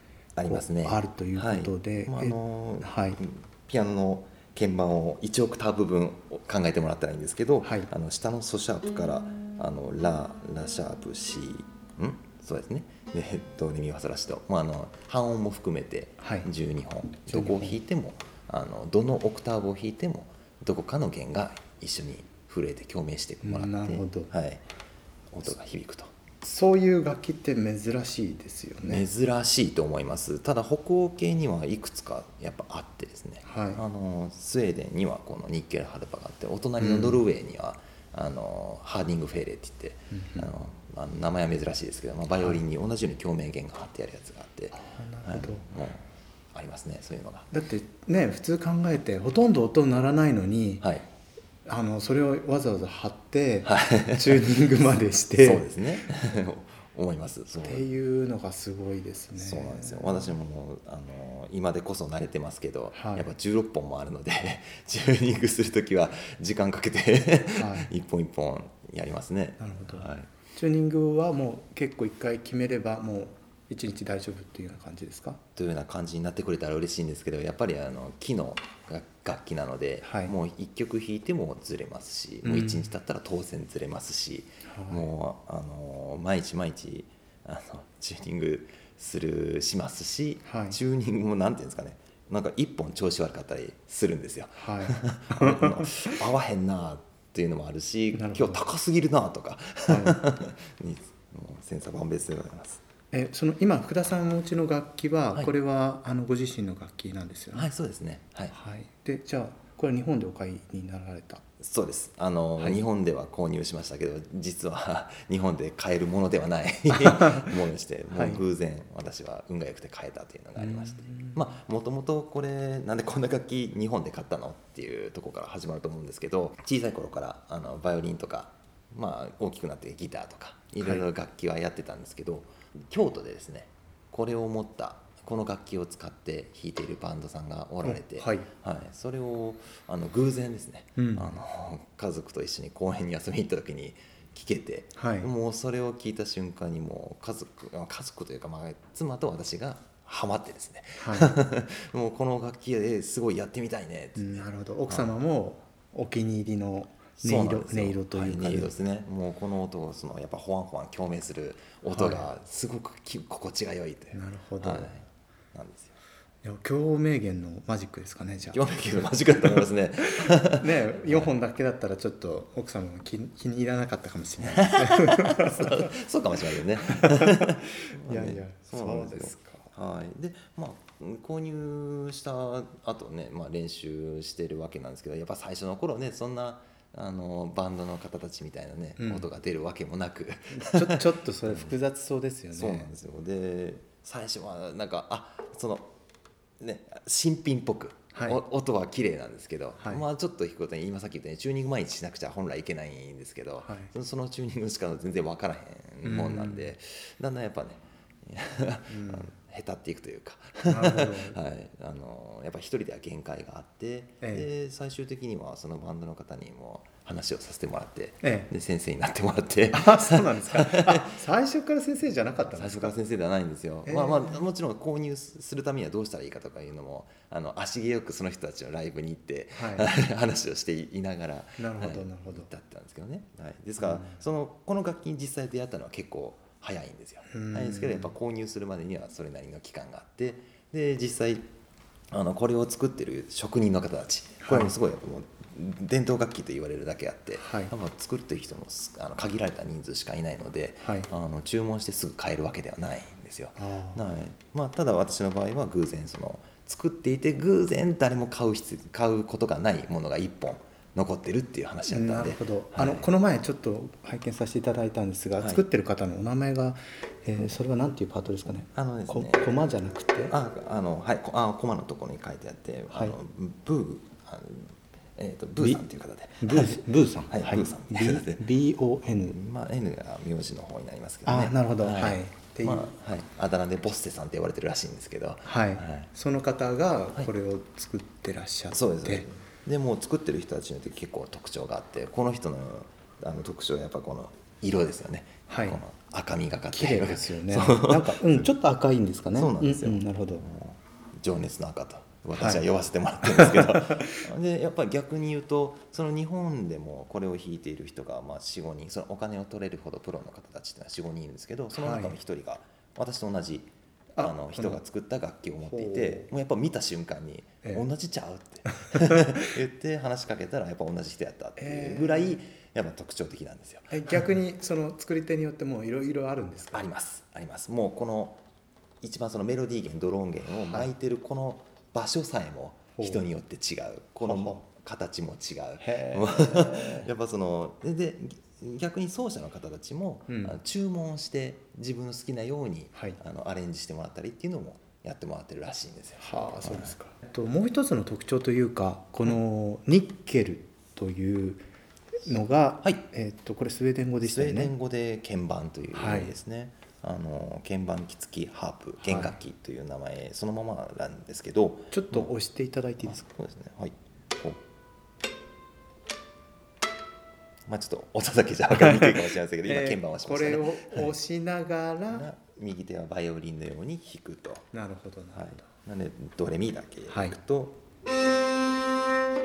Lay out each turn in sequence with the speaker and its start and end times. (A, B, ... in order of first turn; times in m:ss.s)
0:00.4-0:24.6 A
0:00.5-0:03.2 B
0:16.2-0:16.5 B
0:17.3-0:17.8 B
0:23.4-0:24.3 B
0:25.3-0:26.2 A
0:26.4-0:29.0 B
0:28.9-0:47.5 A
0:33.4-0:33.8 B
0:36.8-0:37.2 B
0:40.1-0:40.5 B
0:44.8-0:45.6 B
0:47.5-0:50.8 B
0:51.7-0:55.7 B
0:53.6-0:54.6 A
0:55.4-0:57.9 A
0:57.6-1:00.1 B
0:59.4-1:10.4 A
1:02.9-1:03.3 B
1:07.6-1:07.9 B
1:09.6-1:15.4 B
1:15.6-1:42.8 A
1:20.0-1:20.3 B
1:22.4-1:22.9 B
1:24.7-1:25.1 B
1:30.5-1:30.8 B
1:34.6-1:35.7 B
1:38.1-1:38.6 B
1:39.9-1:40.1 B
1:43.1-1:47.7 B
1:47.5-1:48.5 A
1:48.5-1:51.4 B
1:51.6-2:35.1 A
1:58.1-1:58.4 B
2:00.6-2:01.4 B
2:17.8-2:18.5 B
2:21.0-2:21.3 B
2:25.0-2:25.3 B
2:31.0-2:31.3 B
2:34.2-2:38.7 B
2:37.2-2:46.0 A
2:41.9-2:42.3 B
2:44.1-2:44.9 B
2:46.4-2:48.6 B
2:48.5-2:51.3 A
2:50.6-2:55.5 B
2:54.4-3:11.7 A
2:58.1-2:59.7 B
3:09.0-3:09.3 B
3:10.6-3:12.9 B
3:12.5-3:15.9 A
3:16.6-3:41.2 A
3:19.8-3:20.0 B
3:23.6-3:23.9 B
3:26.0-3:26.6 B
3:28.9-3:29.3 B
3:30.7-3:31.4 B
3:34.2-3:34.5 B
3:38.2-3:38.5 B
3:39.7-3:43.0 B
3:42.4-4:01.5 A
3:43.9-3:44.4 B
3:49.5-3:49.9 B
3:51.6-3:52.5 B
3:57.3-3:58.1 B
4:02.1-4:23.1 A
4:04.4-4:04.7 B
4:07.4-4:07.7 B
4:10.8-4:11.1 B
4:13.6-4:14.0 B
4:21.9-4:30.3 B
4:28.7-4:29.7 A
4:30.3-4:38.5 A
4:36.4-4:39.3 B
4:39.1-4:46.1 A
4:41.3-4:42.9 B
4:45.5-4:49.2 B
4:48.7-4:58.5 A
4:55.5-4:55.8 B
4:56.7-5:00.4 B
4:59.2-5:24.3 A
5:02.4-5:02.6 B
5:11.7-5:12.2 B
5:14.2-5:14.8 B
5:15.7-5:16.3 B
5:21.6-5:22.2 B
5:23.9-5:26.9 B
5:26.7-5:28.4 A
5:29.0-5:46.9 A
5:30.6-5:30.9 B
5:33.0-5:33.2 B
5:34.2-5:34.6 B
5:40.3-5:40.6 B
5:46.2-5:51.6 B
5:52.3-5:54.7 B
5:54.2-6:02.3 A
5:56.0-5:56.3 B
5:59.1-5:59.3 B
6:01.9-6:03.2 B
6:03.0-6:04.6 A
6:07.7-6:11.1 A
6:09.7-6:12.3 B
6:12.1-6:14.7 A
6:14.7-6:15.6 B
6:15.4-6:17.8 A
6:17.1-6:17.4 B